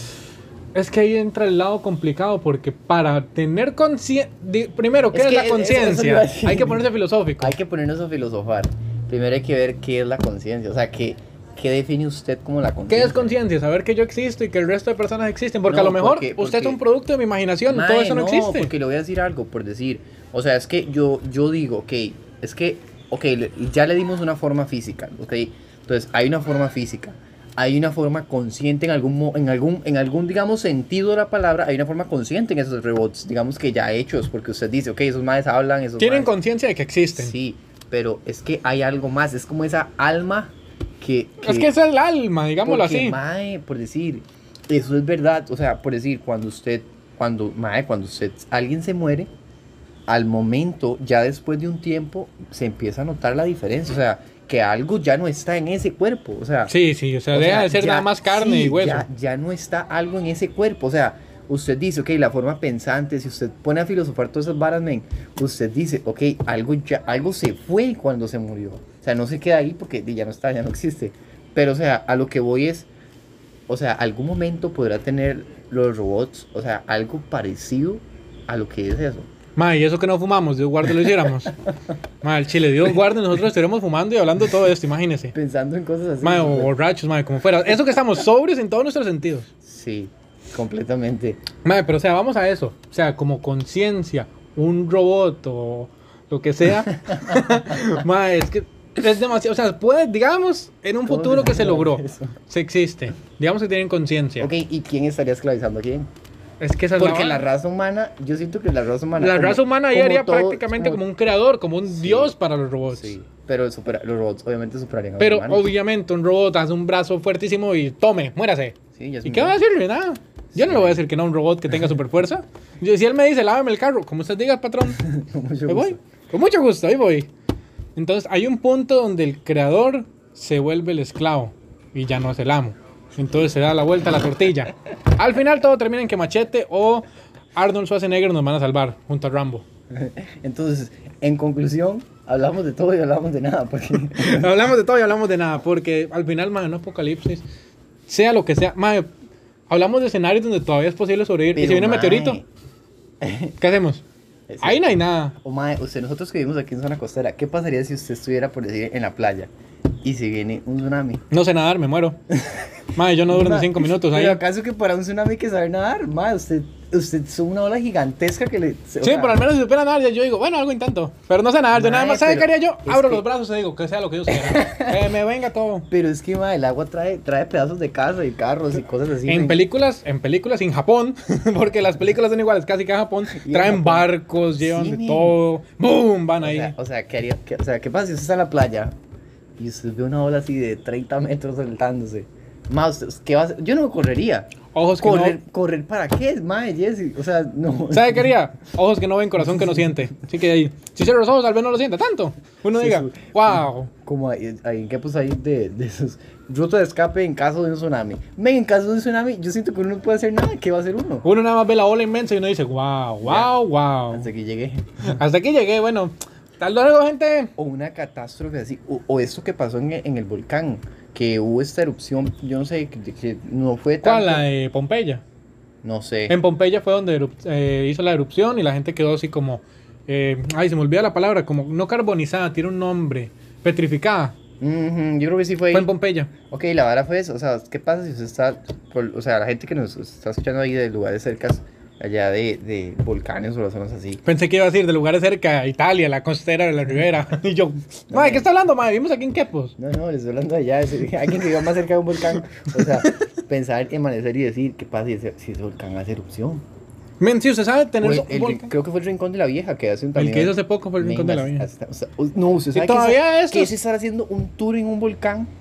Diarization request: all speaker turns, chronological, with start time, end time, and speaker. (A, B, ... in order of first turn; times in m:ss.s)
0:00.7-0:07.5 A
0:05.1-0:06.8 B
0:07.4-0:13.3 B
0:12.9-0:18.7 A
0:15.7-0:16.8 B
0:17.7-0:36.3 B
0:36.0-0:37.3 A
0:37.1-0:41.7 B
0:41.4-0:43.2 A
0:42.6-0:49.3 B
0:50.1-0:56.7 B
0:56.7-0:59.0 A
0:57.3-1:12.9 B
1:13.7-1:19.3 B
1:19.6-1:21.5 A
1:22.2-1:25.3 A
1:25.3-1:26.7 B
1:26.2-1:29.5 A
1:29.6-1:31.4 B
1:31.6-1:44.5 A
1:37.1-1:37.8 B
1:41.0-1:42.4 B
1:44.4-1:46.1 B
1:46.6-1:47.4 A
1:47.0-1:51.0 B
1:49.2-1:53.1 A
1:51.9-1:52.3 B
1:52.9-1:55.7 B
1:55.2-2:05.1 A
1:58.9-1:59.6 B
2:00.5-2:01.0 B
2:05.0-2:06.0 B
2:05.7-2:07.3 A
2:08.0-2:17.0 A
2:17.5-2:19.6 A
2:19.9-2:24.5 B
2:24.2-2:27.4 A
2:28.1-2:29.1 A
2:29.7-2:32.4 A
2:31.5-2:32.4 B
2:33.2-2:33.6 B
2:33.6-2:34.0 A
2:34.5-2:39.5 B
2:34.6-2:35.3 A
2:40.0-2:41.2 B
2:41.3-2:42.2 A
2:42.3-2:42.7 B
2:42.9-2:44.4 A
2:43.3-2:49.4 B
2:49.0-2:55.9 A
2:51.7-2:53.2 B
2:54.3-2:55.1 B
2:55.9-2:59.6 B
2:59.2-3:06.7 A
3:03.3-3:05.4 B
3:06.4-3:09.0 B
3:09.6-3:18.3 B
3:14.7-3:15.4 A
3:17.9-3:23.9 A
3:22.8-3:31.2 B
3:31.2-3:34.3 A
3:33.2-3:33.5 B
3:34.1-3:35.0 B
3:35.0-3:37.5 A
3:37.6-3:44.4 B
3:44.0-3:45.2 A
3:45.8-3:46.4 B
3:46.3-3:54.4 A
3:54.6-3:55.9 B
3:55.7-3:56.3 A
3:56.5-4:04.2 B
4:04.2-4:09.7 A
4:08.1-4:08.5 B
4:09.8-4:16.6 B
4:17.2-4:18.7 A
4:18.0-4:25.5 B
4:20.1-4:21.7 A
4:22.7-4:23.7 A